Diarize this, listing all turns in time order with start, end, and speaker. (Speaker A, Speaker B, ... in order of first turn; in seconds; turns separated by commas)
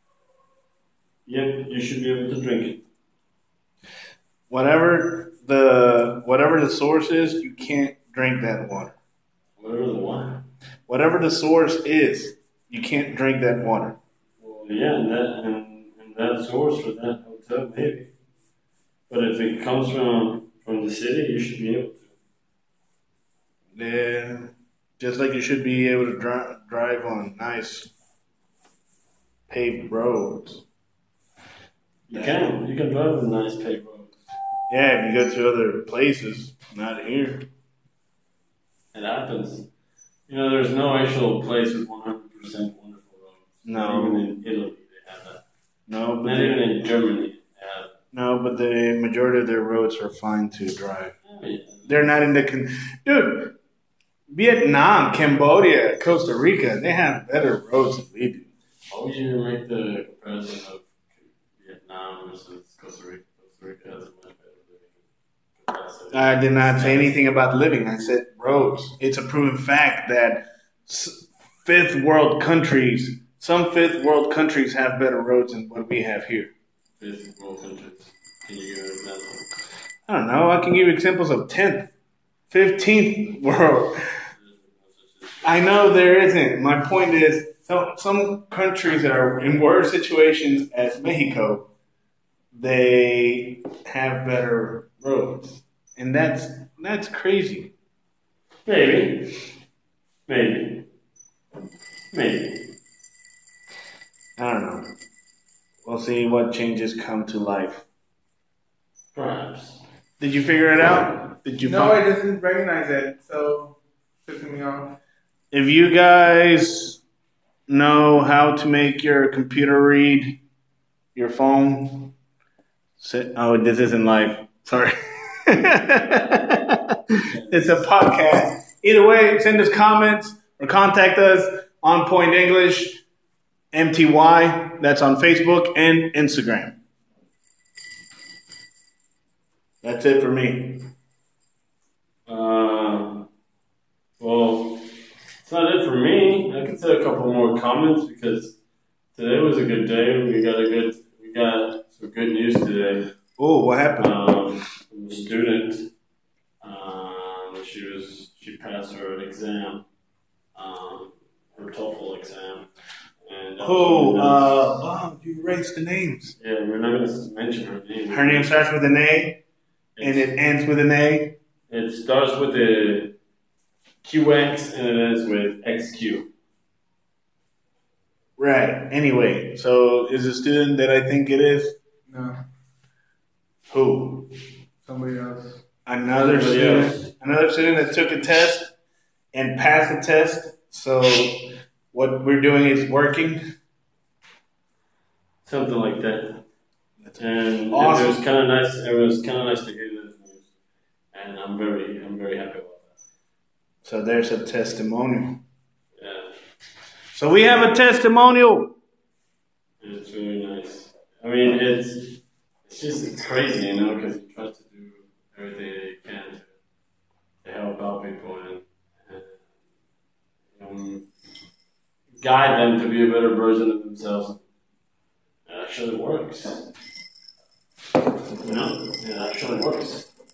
Speaker A: 1.3-2.8, Speaker B: 4.5-8.9, Speaker A: 9.6-10.5, Speaker B: 10.9-14.0, Speaker A: 14.4-18.1, Speaker A: 19.1-22.1, Speaker B: 23.8-27.9, Speaker B: 29.5-30.6, Speaker A: 32.1-34.1, Speaker B: 34.7-37.5, Speaker A: 38.9-39.7, Speaker A: 40.3-45.4, Speaker B: 43.6-44.2, Speaker B: 45.9-46.6, Speaker A: 46.2-47.9, Speaker B: 48.1-51.1, Speaker A: 51.2-52.0, Speaker B: 51.9-53.5, Speaker B: 54.3-58.5, Speaker A: 58.9-65.0, Speaker A: 65.6-67.2, Speaker B: 66.1-76.5, Speaker A: 77.0-79.5, Speaker B: 80.1-81.9, Speaker B: 82.5-84.0, Speaker A: 84.4-86.0, Speaker B: 85.4-91.7, Speaker B: 92.5-97.7, Speaker A: 98.7-99.3, Speaker A: 100.3-100.9, Speaker A: 102.1-102.7, Speaker B: 104.4-104.9, Speaker B: 105.8-107.8, Speaker A: 109.1-109.8, Speaker B: 110.2-112.0, Speaker C: 111.6-115.0, Speaker B: 115.5-117.0, Speaker B: 117.7-120.4, Speaker B: 121.2-122.1, Speaker B: 123.0-126.8, Speaker A: 127.2-127.9, Speaker B: 127.5-133.0, Speaker B: 133.7-136.8, Speaker B: 139.8-140.9, Speaker A: 142.3-143.3, Speaker A: 144.2-144.8, Speaker A: 145.4-148.6, Speaker A: 149.2-153.1, Speaker B: 153.4-154.2, Speaker A: 154.0-155.9, Speaker A: 156.6-159.8, Speaker A: 160.6-162.7, Speaker A: 163.2-164.8, Speaker B: 163.6-166.4, Speaker A: 166.4-168.6, Speaker B: 168.1-169.4, Speaker A: 170.0-170.3, Speaker B: 170.0-171.4, Speaker A: 171.7-173.2, Speaker A: 174.0-176.3, Speaker B: 178.4-181.8, Speaker C: 182.1-182.4, Speaker B: 183.7-184.3, Speaker C: 184.8-185.6, Speaker B: 185.9-188.7, Speaker A: 186.2-187.0, Speaker B: 189.3-193.4, Speaker A: 195.4-196.4, Speaker B: 197.1-198.2, Speaker A: 197.2-200.4, Speaker A: 201.1-202.9, Speaker B: 203.8-205.4, Speaker A: 206.0-206.3, Speaker B: 207.1-208.7, Speaker A: 209.8-216.5, Speaker A: 217.4-219.4, Speaker A: 220.6-221.1, Speaker A: 222.2-224.4, Speaker A: 225.5-226.7, Speaker A: 228.4-230.1